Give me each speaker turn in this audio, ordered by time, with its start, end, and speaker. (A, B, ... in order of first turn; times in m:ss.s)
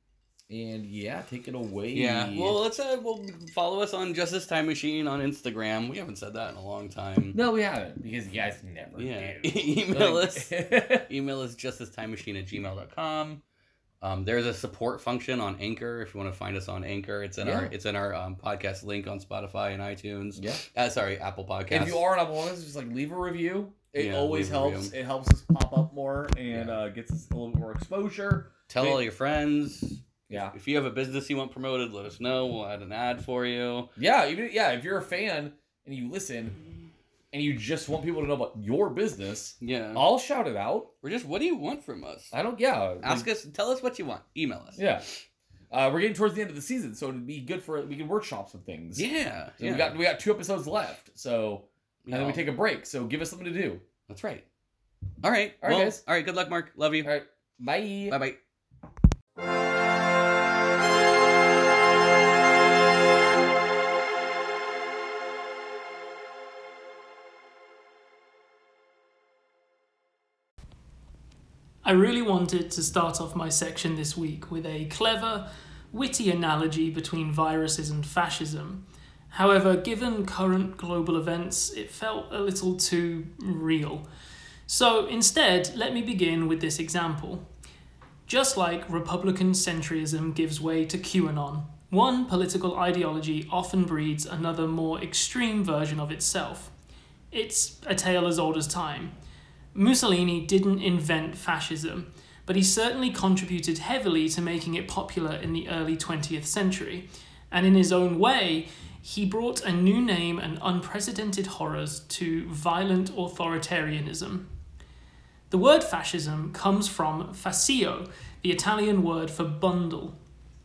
0:00.5-0:02.6 A
0:01.9-0:07.4 B
0:07.3-0:11.1 A
0:09.0-0:13.4 B
0:14.0-0:22.0 B
0:17.4-0:17.7 A
0:21.7-0:29.0 A
0:23.9-0:24.9 B
0:26.5-0:26.8 B
0:28.7-0:33.9 B
0:30.3-0:30.5 A
0:34.0-0:36.6 A
0:37.3-0:40.9 A
0:39.6-0:40.0 B
0:41.0-0:42.3 B
0:42.3-0:43.2 A
0:43.0-0:45.2 B
0:44.8-0:45.0 A
0:45.7-0:49.0 A
0:48.9-0:50.0 B
0:49.6-0:53.8 A
0:52.0-0:52.4 B
0:54.1-0:54.4 B
0:55.2-0:57.1 B
0:55.6-0:56.0 A
0:57.0-0:58.2 A
0:58.1-0:58.4 B
1:11.8-1:24.1 C
1:24.7-1:27.4 C
1:28.3-1:36.7 C
1:37.3-1:39.1 C
1:39.7-1:54.5 C
1:55.5-2:00.2 C